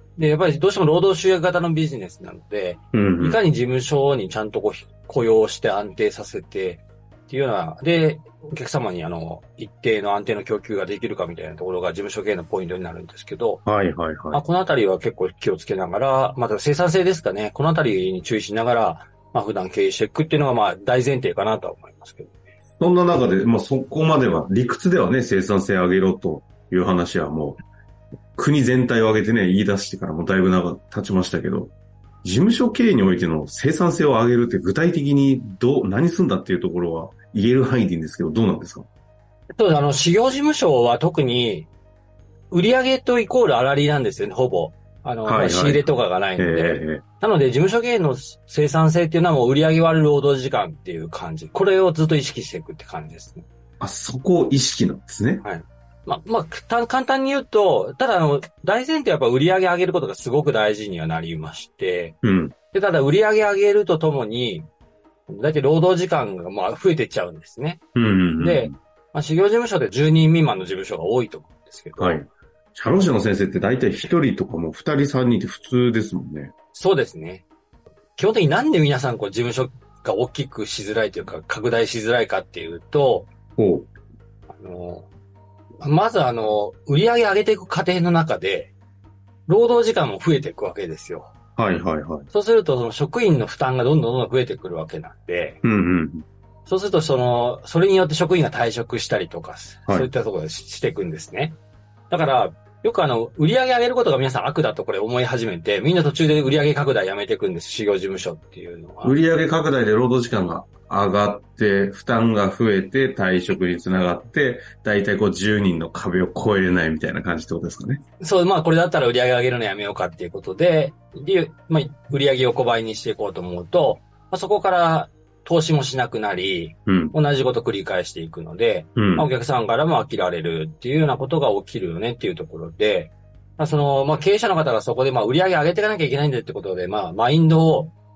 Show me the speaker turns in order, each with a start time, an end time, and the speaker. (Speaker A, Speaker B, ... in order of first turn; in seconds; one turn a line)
Speaker A: 0.2-13.6
Speaker B: 2.9-3.4
Speaker B: 13.7-14.4
Speaker A: 14.3-22.4
Speaker B: 22.8-27.6
Speaker B: 28.4-38.9
Speaker A: 39.6-41.7
Speaker A: 42.5-53.5
Speaker B: 45.2-45.8
Speaker B: 46.4-47.0
Speaker B: 53.8-55.4
Speaker A: 55.4-62.1
Speaker B: 62.2-62.5
Speaker A: 62.7-64.7
Speaker A: 65.3-67.8
Speaker B: 67.9-68.7
Speaker A: 68.4-72.2
Speaker B: 72.0-76.5
Speaker A: 76.7-77.5
Speaker A: 78.2-83.3
Speaker B: 83.6-83.9
Speaker A: 84.6-85.1
Speaker A: 85.8-88.7
Speaker A: 89.5-91.3
Speaker B: 91.6-92.3
Speaker A: 92.3-95.6
Speaker B: 95.6-96.2
Speaker A: 96.7-101.6
Speaker A: 102.1-109.2
Speaker B: 109.0-118.0
Speaker A: 118.2-137.9
Speaker B: 126.9-127.1
Speaker B: 128.9-129.3